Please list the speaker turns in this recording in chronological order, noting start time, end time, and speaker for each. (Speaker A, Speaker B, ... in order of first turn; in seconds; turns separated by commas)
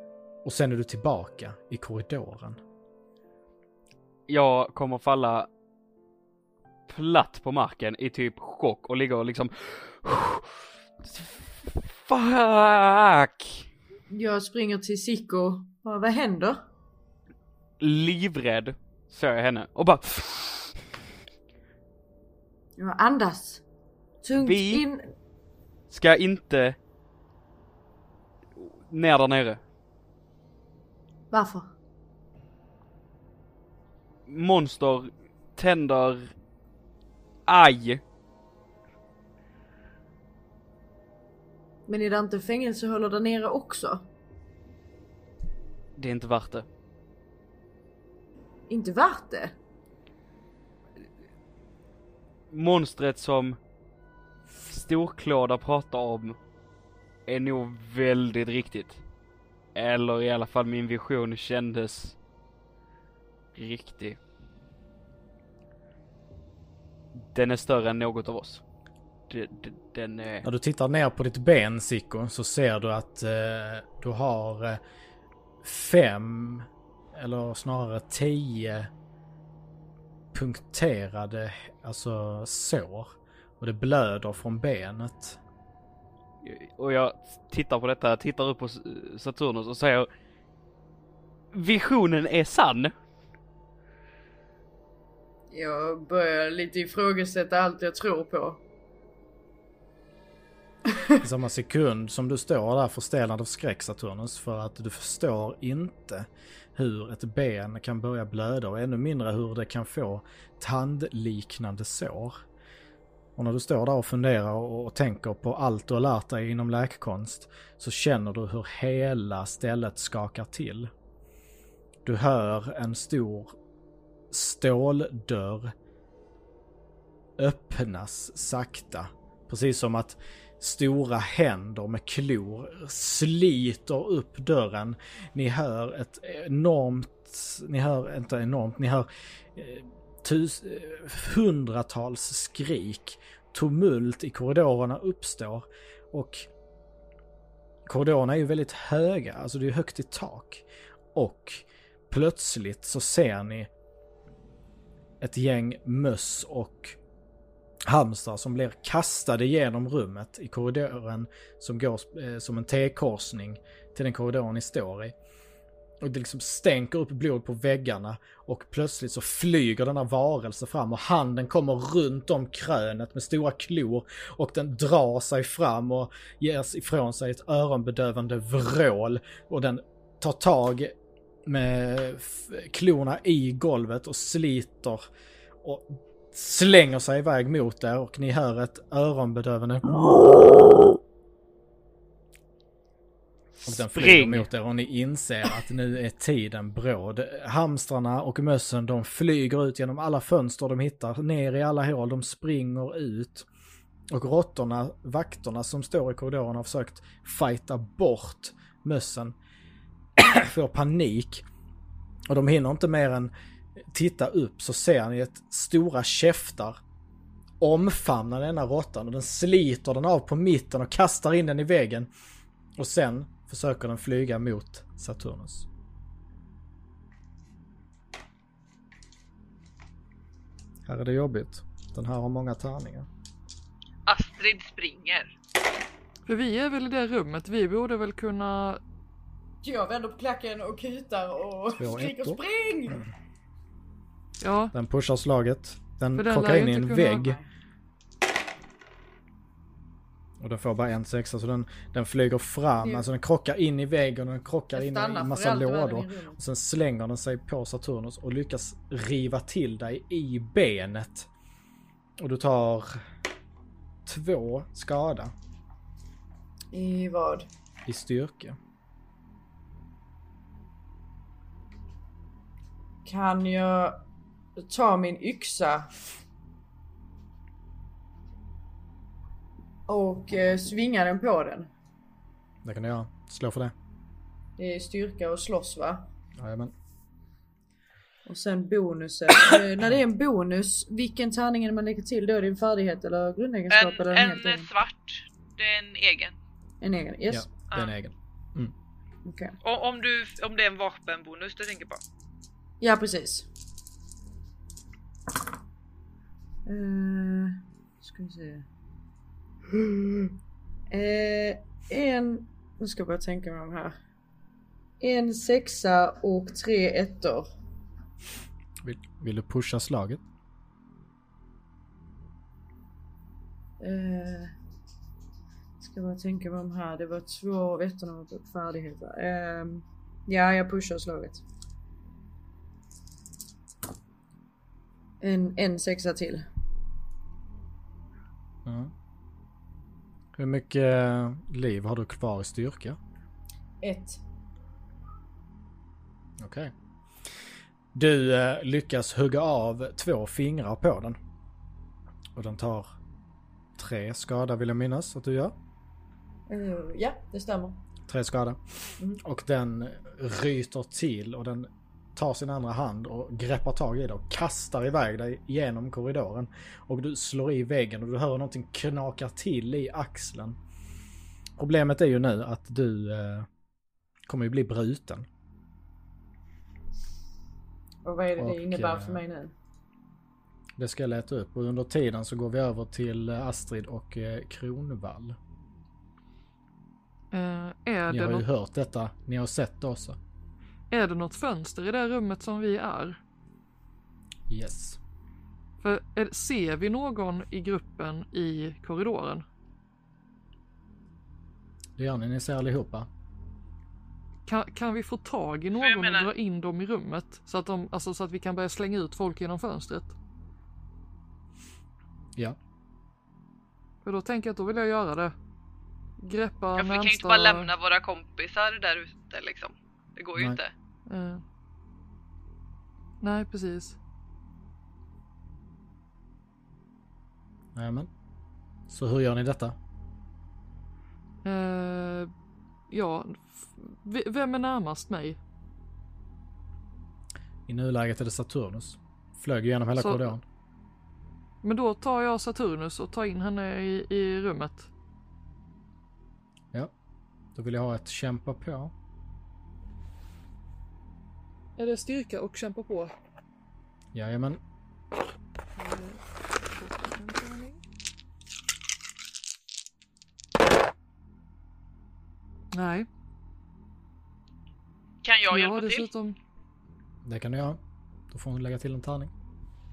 Speaker A: 0.4-2.6, Speaker B: 4.3-5.5, Speaker B: 6.9-13.7, Speaker C: 14.1-16.6, Speaker B: 17.8-20.8, Speaker C: 22.8-23.6, Speaker C: 24.2-25.0, Speaker B: 24.4-24.9, Speaker B: 25.9-26.8, Speaker B: 28.6-29.6, Speaker C: 31.3-31.7, Speaker B: 34.3-36.3, Speaker B: 37.5-38.0, Speaker C: 41.9-44.1, Speaker B: 46.0-46.6, Speaker C: 48.7-49.5, Speaker B: 52.5-53.6, Speaker B: 54.7-56.4, Speaker B: 57.3-59.0, Speaker B: 59.7-62.1, Speaker B: 63.5-64.2, Speaker B: 67.2-68.6, Speaker B: 69.3-70.5, Speaker A: 70.4-74.8, Speaker A: 75.6-78.9, Speaker A: 80.3-85.4, Speaker B: 86.4-90.1, Speaker B: 91.5-92.9, Speaker C: 95.5-98.6, Speaker A: 101.2-112.4, Speaker A: 113.3-120.9, Speaker A: 122.0-123.5, Speaker A: 124.3-125.7, Speaker A: 127.4-146.5, Speaker A: 147.8-153.7, Speaker A: 155.2-157.0, Speaker A: 157.9-165.1, Speaker A: 166.0-185.0, Speaker A: 185.6-190.8, Speaker A: 193.6-203.5, Speaker B: 193.7-194.4, Speaker A: 204.1-209.3, Speaker A: 210.2-211.4, Speaker A: 212.3-216.8, Speaker A: 217.6-222.1, Speaker A: 222.8-225.7, Speaker A: 230.8-233.1, Speaker D: 234.1-235.3, Speaker E: 236.2-238.8, Speaker C: 239.6-243.1, Speaker A: 241.7-242.4, Speaker E: 244.4-244.7, Speaker A: 244.7-247.4, Speaker E: 246.2-247.3, Speaker A: 250.4-261.3, Speaker C: 254.7-256.4, Speaker A: 262.2-263.0, Speaker A: 264.1-265.3, Speaker C: 266.7-267.5, Speaker A: 267.9-268.6, Speaker C: 273.0-274.0, Speaker C: 274.6-275.9, Speaker C: 279.9-281.7, Speaker A: 282.6-283.7, Speaker C: 284.6-286.0, Speaker A: 286.4-286.7, Speaker C: 288.2-294.7, Speaker D: 293.7-296.4, Speaker C: 296.8-297.5, Speaker A: 297.3-298.7, Speaker C: 299.2-299.6, Speaker D: 299.6-302.0, Speaker C: 302.8-303.5, Speaker C: 306.6-308.6, Speaker C: 309.7-310.3, Speaker C: 310.9-313.9, Speaker C: 315.0-317.5, Speaker A: 318.8-320.2, Speaker C: 323.8-324.5, Speaker C: 325.8-331.4, Speaker C: 335.2-336.4, Speaker A: 338.6-338.9, Speaker A: 340.4-343.0, Speaker C: 343.8-344.2, Speaker A: 346.4-346.7, Speaker A: 347.9-351.2, Speaker A: 352.3-352.9, Speaker A: 353.8-355.5, Speaker C: 356.5-357.8, Speaker A: 358.1-370.6, Speaker A: 371.6-373.5, Speaker A: 374.3-375.2, Speaker C: 378.0-379.5, Speaker A: 378.3-379.2, Speaker A: 380.8-385.4, Speaker E: 387.3-388.4, Speaker A: 388.1-390.2, Speaker E: 390.9-393.2, Speaker A: 394.5-395.0, Speaker E: 395.8-399.4, Speaker A: 402.0-403.1, Speaker E: 404.4-410.1, Speaker D: 405.8-406.3, Speaker E: 414.0-415.3, Speaker E: 416.2-417.7, Speaker D: 416.8-420.7, Speaker E: 421.1-421.4, Speaker E: 423.2-424.0, Speaker A: 427.7-428.1, Speaker A: 428.9-429.8, Speaker E: 431.4-432.3, Speaker E: 432.9-435.4, Speaker A: 437.7-440.4, Speaker E: 440.0-440.3, Speaker E: 441.6-444.9, Speaker A: 447.5-448.9, Speaker E: 451.8-453.1, Speaker A: 454.1-454.6, Speaker E: 455.8-457.8, Speaker E: 462.7-463.1, Speaker D: 465.2-466.1, Speaker E: 465.5-466.4, Speaker A: 467.2-469.3